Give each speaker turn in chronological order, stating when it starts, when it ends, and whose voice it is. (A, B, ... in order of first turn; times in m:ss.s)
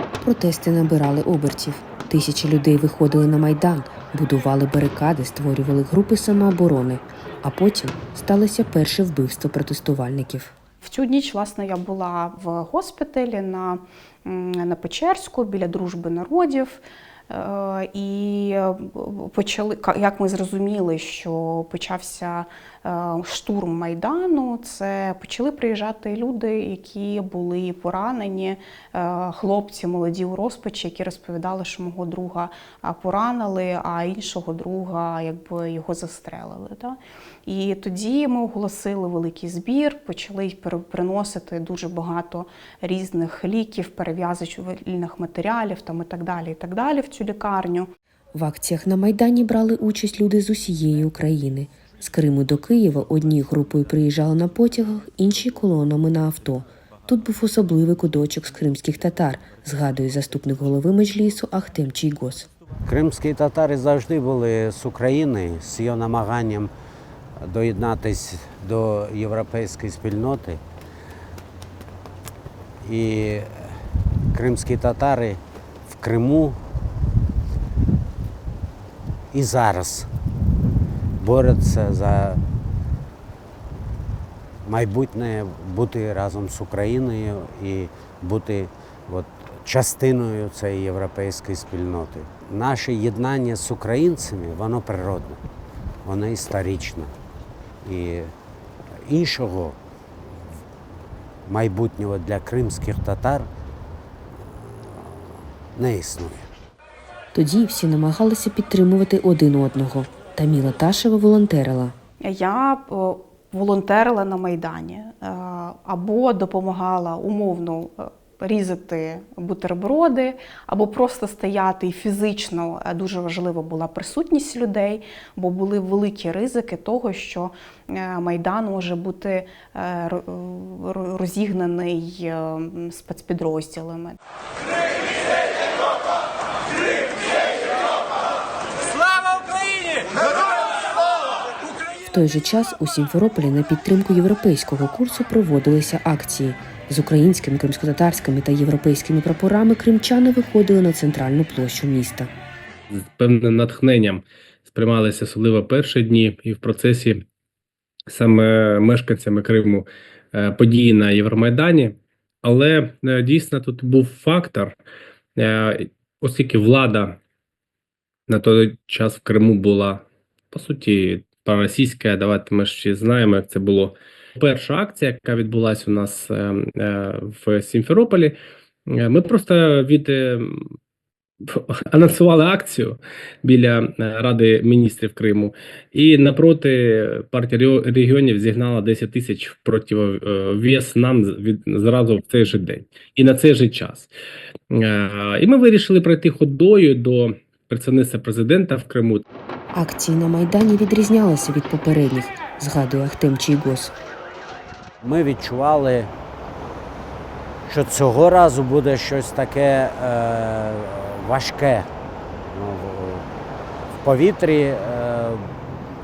0:00.2-0:10.5 A
0:10.8-0:47.9 B
0:48.3-1:02.5 A
1:02.8-1:06.7 C
1:07.4-1:10.6 C
1:12.8-1:13.8 C
1:14.3-1:16.6 C
1:19.3-1:20.1 C
1:21.2-1:22.4 C
1:24.6-1:35.4 C
1:36.0-1:37.1 C
1:37.8-1:38.3 C
1:39.0-1:39.8 C
1:41.5-1:43.5 C
1:44.6-1:46.5 C
1:47.3-1:51.9 A
1:52.2-2:14.2 B
2:22.0-2:32.3 A
2:32.9-2:37.2 D
2:38.1-2:44.7 D
2:45.4-2:47.2 D
2:48.3-2:58.4 D
2:58.9-3:00.6 D
3:01.5-3:14.1 D
3:14.7-3:19.2 D
3:19.7-3:23.9 A
3:25.0-3:26.1 C
3:27.7-3:31.9 C
3:32.5-3:33.3 C
3:34.0-3:35.5 C